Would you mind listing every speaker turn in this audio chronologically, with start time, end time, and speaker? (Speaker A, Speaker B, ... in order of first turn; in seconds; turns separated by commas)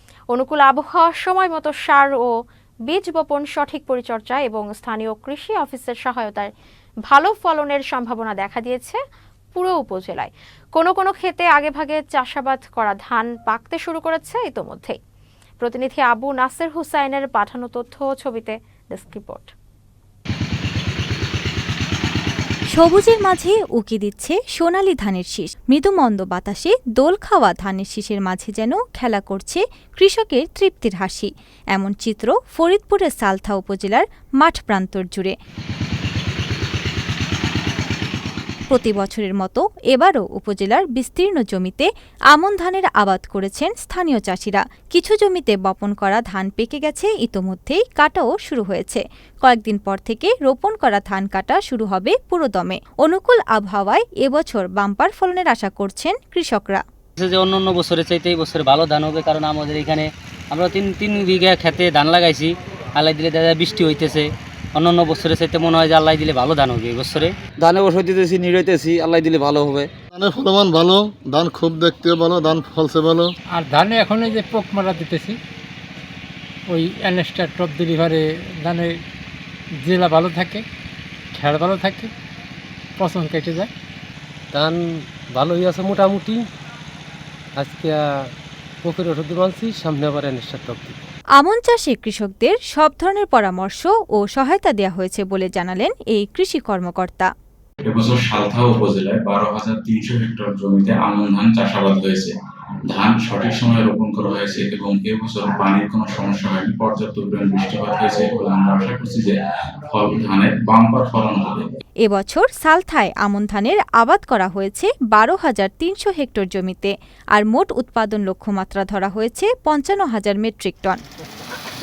Speaker A: 0.3-2.3, Speaker A: 2.9-6.5, Speaker A: 7.1-9.0, Speaker A: 9.5-15.0, Speaker A: 15.6-19.5, Speaker B: 22.7-35.3, Speaker B: 38.7-56.8, Speaker C: 57.2-67.4, Speaker D: 67.6-69.9, Speaker E: 70.1-73.3, Speaker F: 73.5-75.4, Speaker F: 76.7-79.0, Speaker F: 79.8-80.7, Speaker F: 81.3-82.1, Speaker F: 83.0-83.7, Speaker G: 84.5-86.5, Speaker G: 87.6-88.3, Speaker G: 88.8-91.0, Speaker B: 91.4-97.3, Speaker H: 97.8-102.3, Speaker H: 102.9-111.7, Speaker B: 112.0-121.0